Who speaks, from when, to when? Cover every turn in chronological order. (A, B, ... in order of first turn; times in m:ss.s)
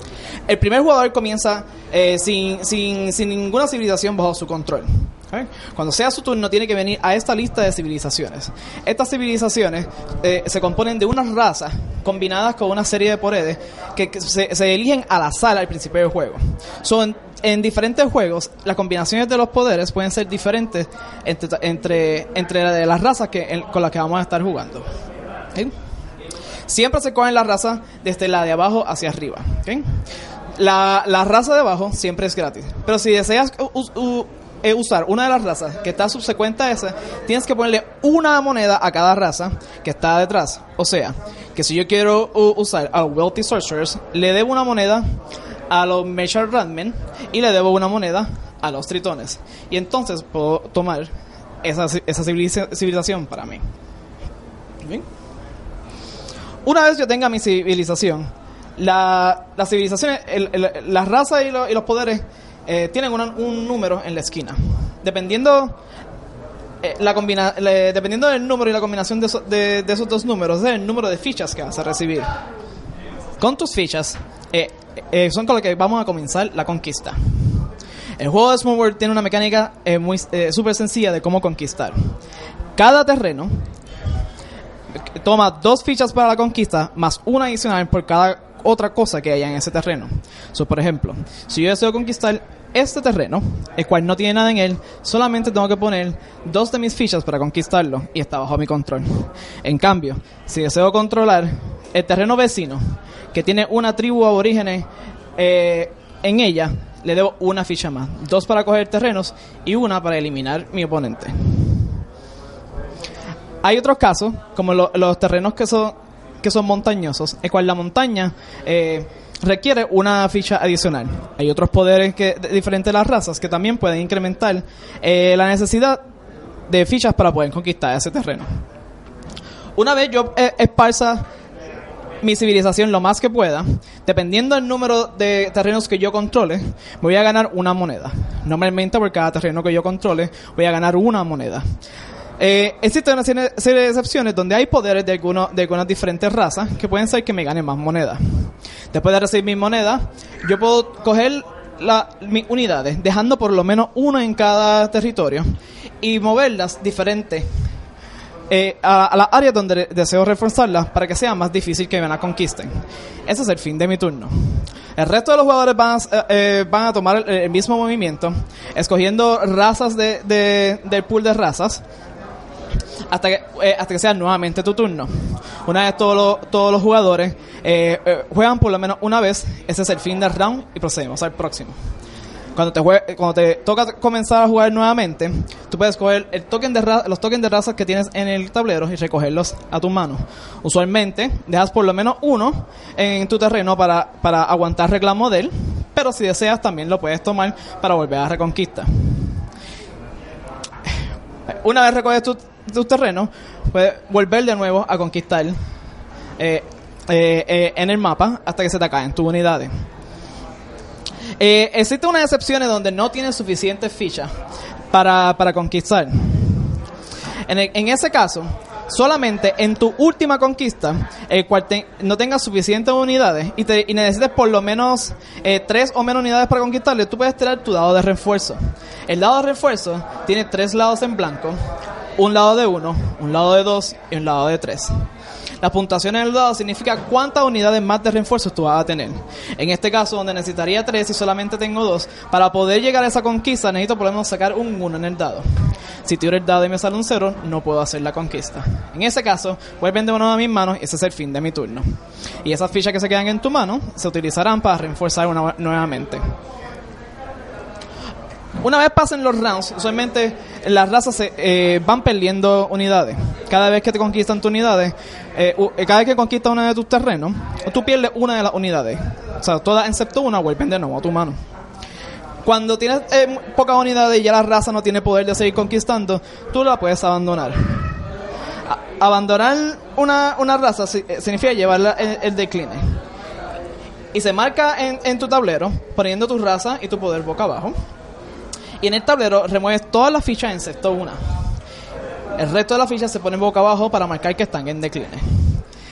0:00.5-0:24.9 A
0:26.7-0:29.8 A
0:30.6-0:45.0 A
0:45.7-0:51.1 A
0:51.6-0:53.6 A
0:56.6-1:05.8 A
1:06.8-1:12.3 A
1:13.4-1:22.1 A
1:22.8-1:23.6 A
1:24.9-1:44.8 A
1:45.4-1:51.9 A
1:53.6-2:06.0 A
2:06.7-2:08.6 A
2:09.8-2:11.2 A
2:12.2-2:21.6 A
2:22.4-2:35.4 A
2:36.0-2:37.5 A
2:38.5-2:42.7 A
2:43.3-2:51.8 A
2:53.1-3:01.7 A
3:02.5-3:19.4 A
3:20.8-3:25.6 A
3:26.4-3:29.7 A
3:31.4-3:34.3 A
3:34.9-3:36.8 A
3:37.5-3:51.6 A
3:52.2-3:55.0 A
3:55.6-4:05.4 A
4:06.0-4:11.8 A
4:12.4-4:16.2 A
4:18.6-4:31.4 A
4:32.4-4:38.0 A
4:38.6-4:43.0 A
4:44.1-4:47.7 A
4:48.8-4:51.2 A
4:52.4-4:55.6 A